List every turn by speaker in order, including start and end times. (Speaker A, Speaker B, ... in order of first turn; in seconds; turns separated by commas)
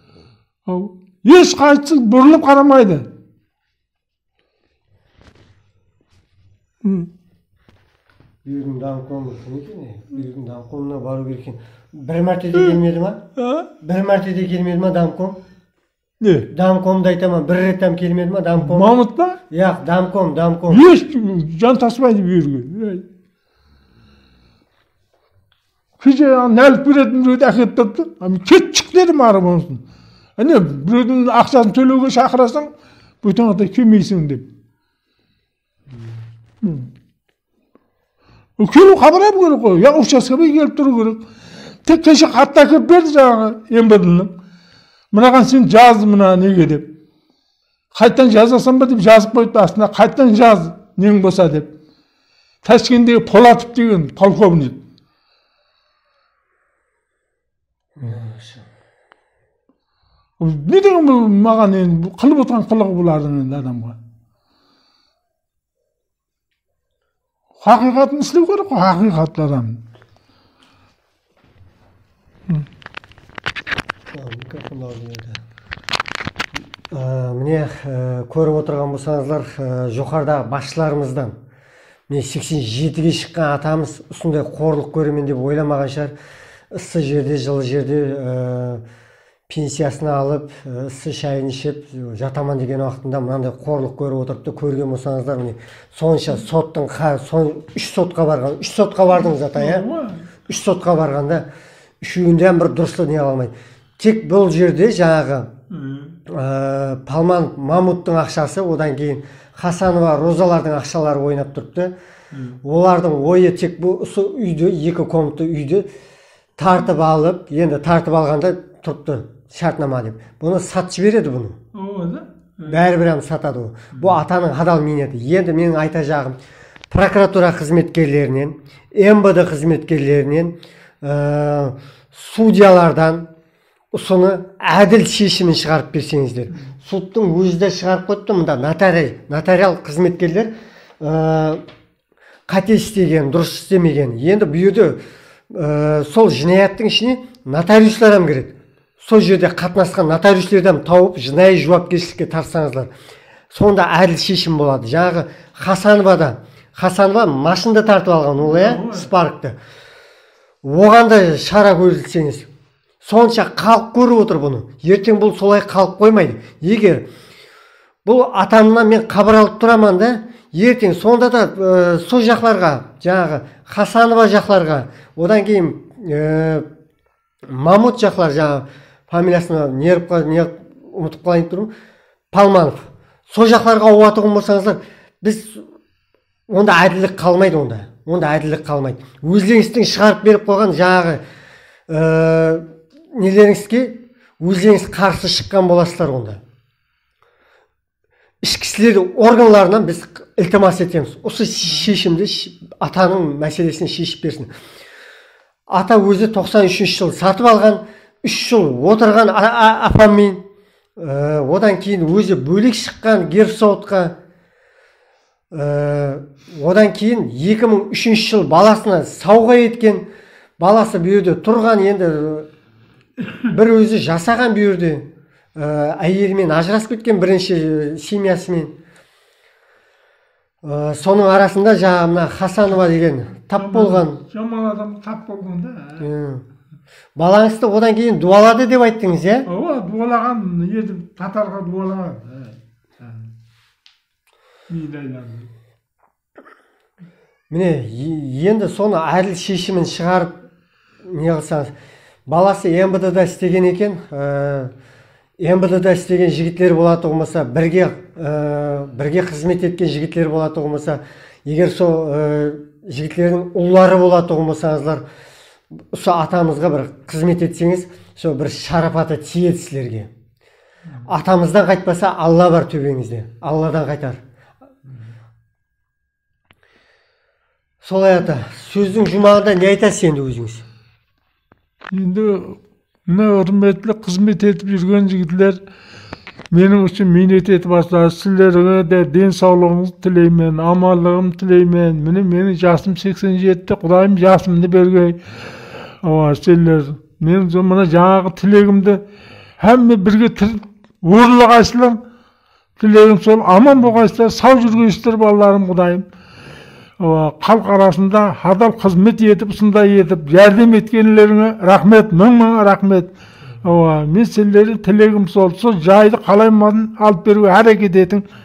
Speaker A: 0.7-3.1, Speaker A: 6.8-7.1, Speaker B: 8.4-13.2, Speaker A: 13.4-13.7, Speaker B: 13.8-15.4, Speaker A: 16.2-16.5, Speaker B: 16.5-18.9, Speaker A: 18.6-19.4, Speaker B: 19.5-20.9, Speaker A: 20.7-23.1, Speaker A: 26.0-29.8, Speaker A: 30.4-32.7, Speaker A: 33.2-34.5, Speaker A: 36.6-36.9, Speaker A: 38.6-41.2, Speaker A: 41.8-44.3, Speaker A: 45.1-46.9, Speaker A: 47.9-51.7, Speaker A: 52.6-54.8, Speaker B: 58.0-58.7, Speaker A: 60.4-64.0, Speaker A: 67.6-69.8, Speaker B: 74.1-75.4, Speaker B: 76.9-81.4, Speaker B: 82.1-86.1, Speaker B: 86.7-88.8, Speaker B: 89.5-99.8, Speaker A: 99.1-100.3, Speaker B: 100.5-101.5, Speaker B: 102.0-105.5, Speaker A: 105.7-106.2, Speaker B: 106.3-111.9, Speaker A: 112.3-112.6, Speaker B: 112.6-115.9, Speaker B: 116.6-121.6, Speaker A: 121.7-122.8, Speaker B: 122.7-126.4, Speaker B: 126.9-133.3, Speaker B: 133.9-141.6, Speaker B: 142.5-152.9, Speaker B: 153.5-159.6, Speaker A: 158.4-159.1, Speaker B: 160.6-162.5, Speaker B: 163.0-167.1, Speaker B: 168.1-176.7, Speaker B: 177.5-181.7, Speaker B: 182.3-185.6, Speaker B: 186.5-191.2, Speaker B: 191.9-196.4, Speaker B: 198.4-204.5, Speaker B: 205.7-210.4, Speaker B: 211.0-214.2, Speaker B: 215.5-220.1, Speaker B: 220.6-222.5, Speaker B: 223.5-228.7, Speaker B: 230.6-234.2, Speaker A: 233.6-236.1, Speaker B: 236.0-236.4, Speaker B: 237.2-239.5, Speaker A: 239.5-243.3, Speaker A: 244.7-245.5, Speaker B: 247.5-250.3, Speaker B: 251.0-251.7, Speaker B: 252.3-254.7, Speaker B: 255.4-265.0, Speaker B: 265.9-270.1, Speaker B: 271.1-274.2, Speaker B: 277.8-280.6, Speaker A: 281.9-285.6, Speaker A: 286.5-295.2, Speaker A: 295.8-299.0, Speaker A: 299.6-302.0, Speaker A: 302.8-306.1, Speaker A: 307.0-313.1, Speaker A: 313.6-318.3